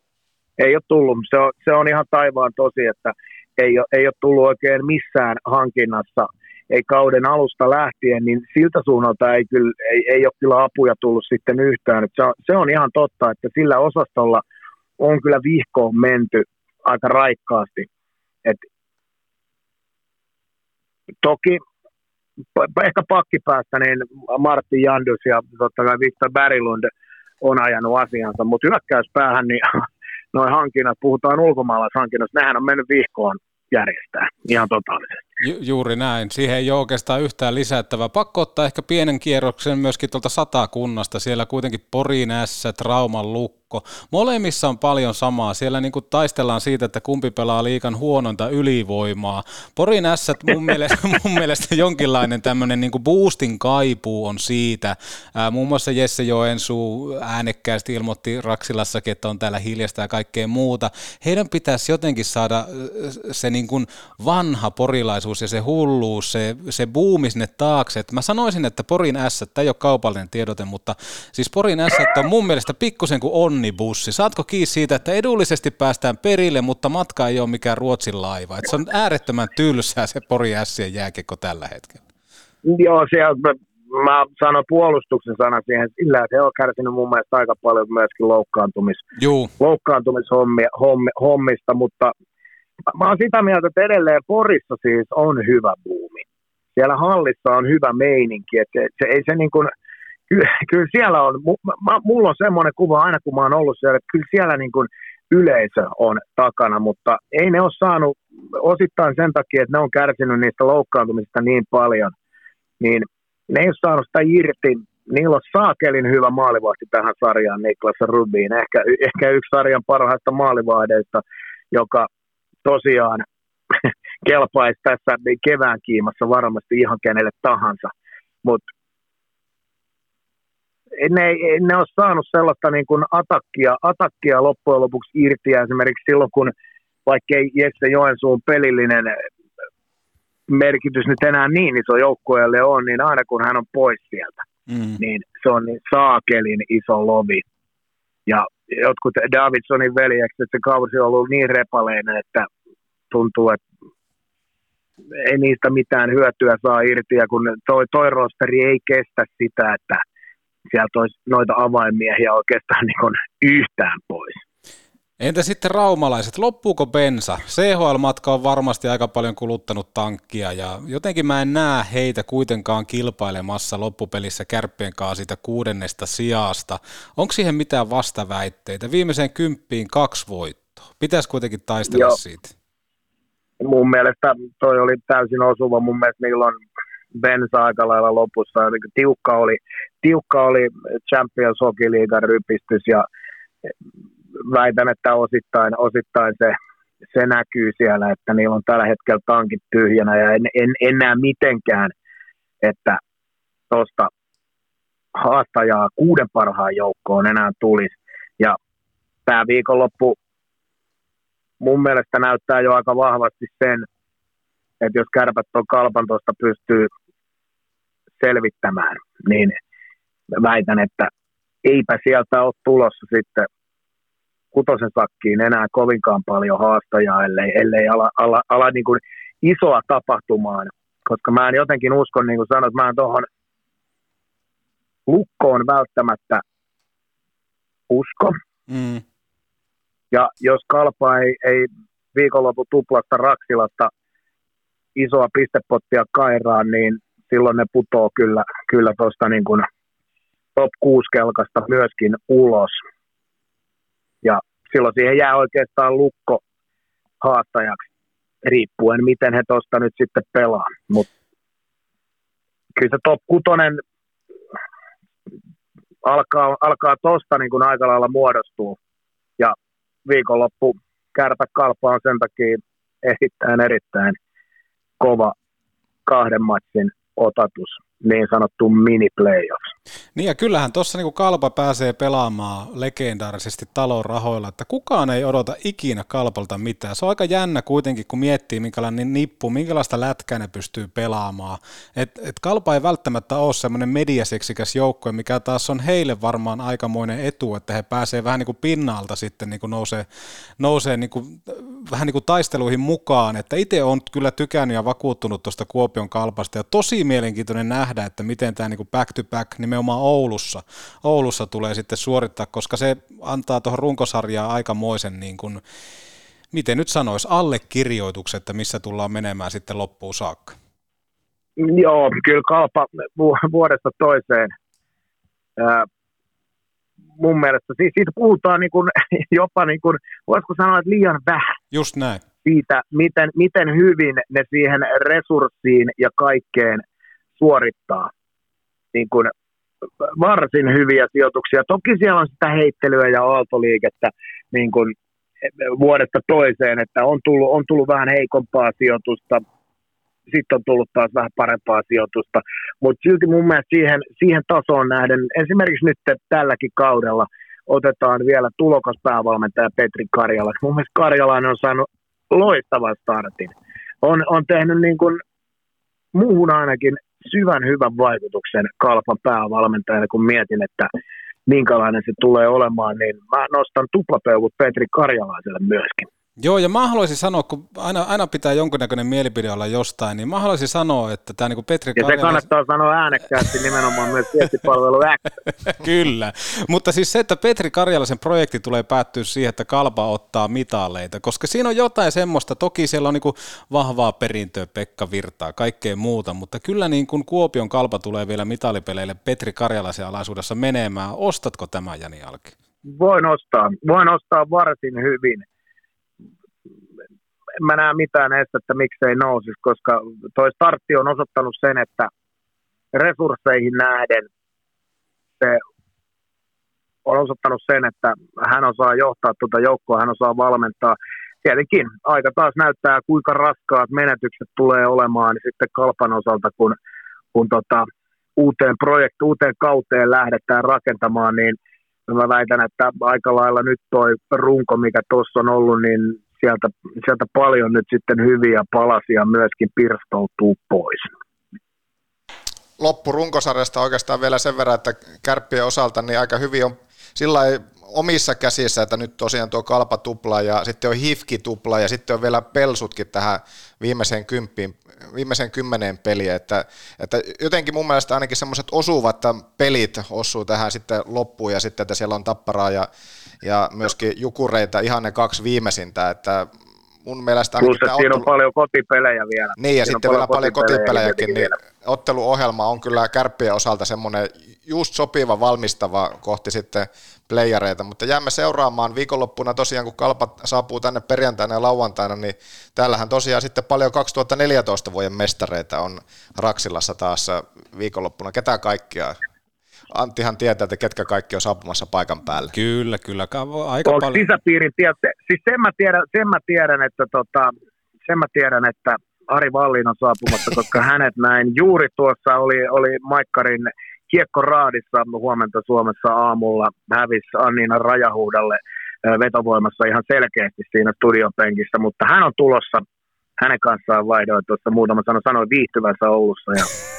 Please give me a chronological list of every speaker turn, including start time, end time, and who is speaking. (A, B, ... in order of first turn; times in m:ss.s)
0:00.6-0:14.4 A
0:15.0-0:17.9 A
0:21.2-0:21.6 A
0:22.6-0:26.9 A
0:27.4-0:29.6 A
0:30.3-0:35.2 A
0:35.4-1:22.0 B
1:22.6-1:29.0 A
1:29.2-1:29.5 B
1:29.6-1:32.1 A
1:32.9-1:36.2 A
1:36.8-1:39.7 A
1:40.3-1:52.1 A
1:52.8-2:02.1 A
2:02.6-2:03.2 A
2:04.2-2:07.9 A
2:11.0-2:16.5 A
2:17.0-2:19.1 A
2:20.5-2:24.4 A
2:24.7-2:25.0 B
2:25.0-2:27.4 A
2:28.3-2:32.5 A
2:33.1-2:33.6 A
2:35.2-2:40.0 A
2:40.7-2:44.4 A
2:45.2-3:02.5 B
3:01.9-3:02.2 A
3:03.6-3:06.6 A
3:07.2-3:13.0 A
3:14.4-3:16.6 A
3:17.1-3:21.9 A
3:22.6-3:23.0 A
3:23.7-3:24.1 A
3:25.2-3:28.6 A
3:29.3-3:30.2 A
3:31.6-3:33.8 A
3:34.8-3:36.9 A
3:38.2-3:39.6 A
3:40.4-3:41.1 A
3:41.6-3:43.5 A
3:44.5-3:53.2 A
3:55.1-3:56.4 A
3:57.9-3:58.4 A
3:58.7-3:59.0 B
4:00.1-4:03.9 A
4:05.0-4:09.6 A
4:10.6-4:12.8 A
4:14.2-4:16.4 A
4:17.2-4:17.8 A
4:18.4-4:21.1 A
4:22.8-4:23.8 A
4:26.0-4:28.8 A
4:30.0-4:34.2 A
4:35.0-4:35.3 A
4:36.0-4:39.6 A
4:40.2-5:00.0 B
5:00.6-5:15.6 B
5:16.5-5:20.5 B
5:21.6-5:24.5 A
5:25.6-5:25.9 A
5:27.2-5:31.4 A
5:31.7-5:32.2 B
5:32.4-5:36.8 A
5:37.4-5:38.1 A
5:38.9-5:39.3 A
5:40.0-5:44.9 A
5:45.6-5:49.4 A
5:50.3-6:05.2 A
6:06.1-6:10.9 A
6:11.5-6:16.1 A
6:16.4-6:22.4 B
6:22.0-6:25.3 A
6:25.6-6:42.5 B
6:42.9-6:45.4 A
6:47.6-6:52.1 A
6:52.9-6:54.3 A
6:57.0-7:06.8 A
7:07.3-7:07.8 A
7:08.4-7:11.6 A
7:12.1-7:21.1 A
7:22.8-7:42.9 C
7:43.4-7:46.5 C
7:47.0-7:48.3 C
7:47.6-7:51.5 A
7:49.6-8:09.2 C
8:09.9-8:12.5 C
8:12.5-8:14.3 B
8:13.8-8:17.5 A
8:18.1-8:32.8 A
8:33.4-8:36.7 A